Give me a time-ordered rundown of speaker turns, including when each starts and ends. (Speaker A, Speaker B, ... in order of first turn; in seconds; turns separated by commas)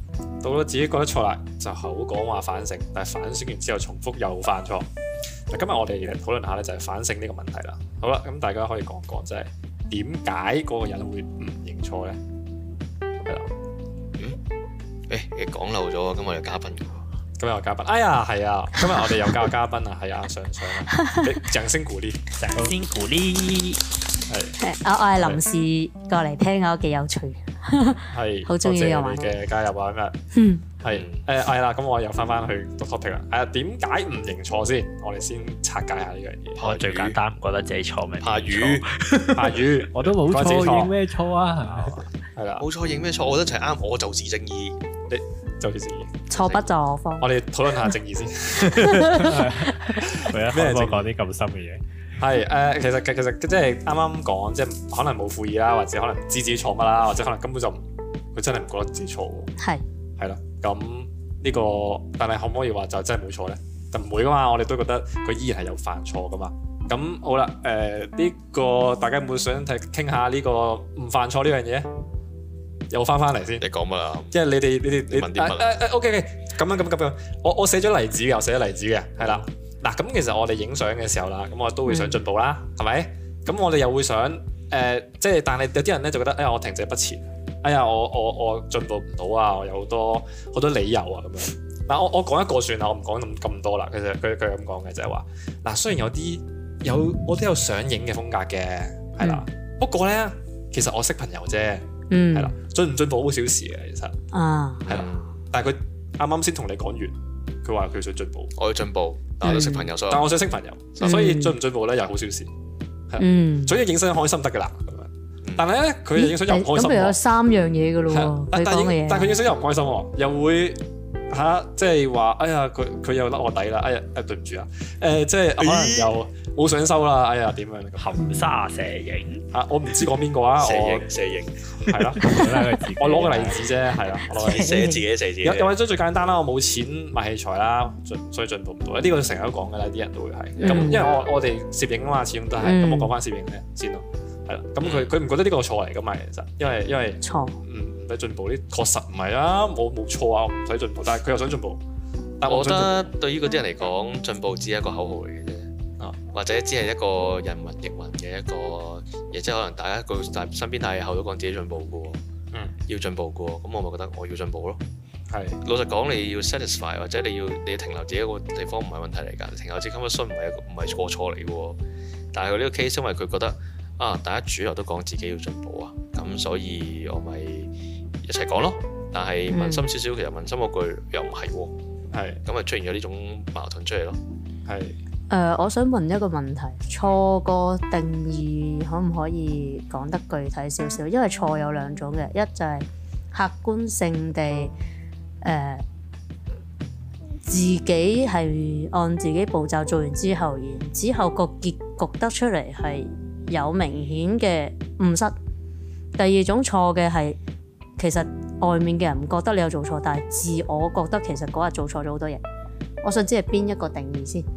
Speaker A: 0.4-4.9, Speaker A: 5.5-12.2, Speaker B: 15.1-17.1, Speaker A: 17.4-22.2, Speaker C: 20.9-21.2, Speaker D: 22.3-23.8, Speaker A: 24.3-24.6, Speaker C: 24.6-29.3, Speaker A: 28.1-30.1, Speaker C: 30.3-30.7, Speaker A: 30.8-36.6, Speaker B: 30.8-31.2, Speaker B: 36.6-37.2, Speaker D: 36.6-39.1, Speaker B: 38.2-39.6, Speaker A: 39.4-41.0, Speaker E: 39.9-42.0, Speaker A: 41.7-42.6, Speaker B: 42.6-44.8, Speaker A: 45.1-46.2, Speaker C: 46.3-47.3, Speaker B: 46.3-46.7, Speaker A: 47.2-49.0, Speaker C: 48.7-49.9, Speaker E: 49.0-51.8, Speaker A: 50.0-51.1, Speaker A: 52.2-57.8, Speaker A: 58.3-59.5, Speaker C: 59.6-59.8, Speaker A: 60.2-71.9, Speaker A: 72.9-73.7, Speaker B: 73.6-74.4, Speaker A: 74.3-104.1, Speaker B: 75.1-75.7, Speaker C: 81.9-82.2, Speaker C: 99.2-99.4, Speaker C: 102.1-102.5, Speaker C: 104.3-104.8, Speaker B: 104.8-105.5, Speaker A: 104.9-108.5, Speaker B: 108.5-110.3, Speaker C: 109.4-109.9, Speaker A: 110.1-112.5, Speaker C: 111.0-111.6, Speaker A: 113.1-117.2, Speaker C: 113.2-113.8, Speaker C: 116.1-119.3, Speaker A: 118.1-128.2, Speaker B: 125.6-126.1, Speaker D: 128.0-129.4, Speaker A: 129.5-131.1, Speaker B: 130.6-131.7, Speaker A: 131.9-132.3, Speaker E: 132.3-133.6, Speaker A: 132.9-134.8, Speaker B: 134.3-135.7, Speaker C: 134.4-135.0, Speaker A: 135.4-151.8, Speaker C: 140.6-141.1, Speaker C: 142.6-143.1, Speaker B: 144.8-145.1, Speaker C: 147.2-147.6, Speaker A: 152.4-153.1, Speaker B: 152.4-155.7, Speaker B: 156.3-162.2, Speaker B: 162.9-164.8, Speaker A: 165.3-165.6, Speaker B: 165.6-171.8, Speaker B: 172.3-181.8, Speaker C: 179.5-179.9, Speaker A: 182.1-182.4, Speaker B: 182.4-184.2, Speaker A: 184.7-185.0, Speaker C: 185.3-194.7, Speaker C: 195.4-195.8, Speaker C: 197.4-205.3, Speaker C: 206.2-207.4, Speaker C: 208.0-212.4, Speaker C: 213.0-214.4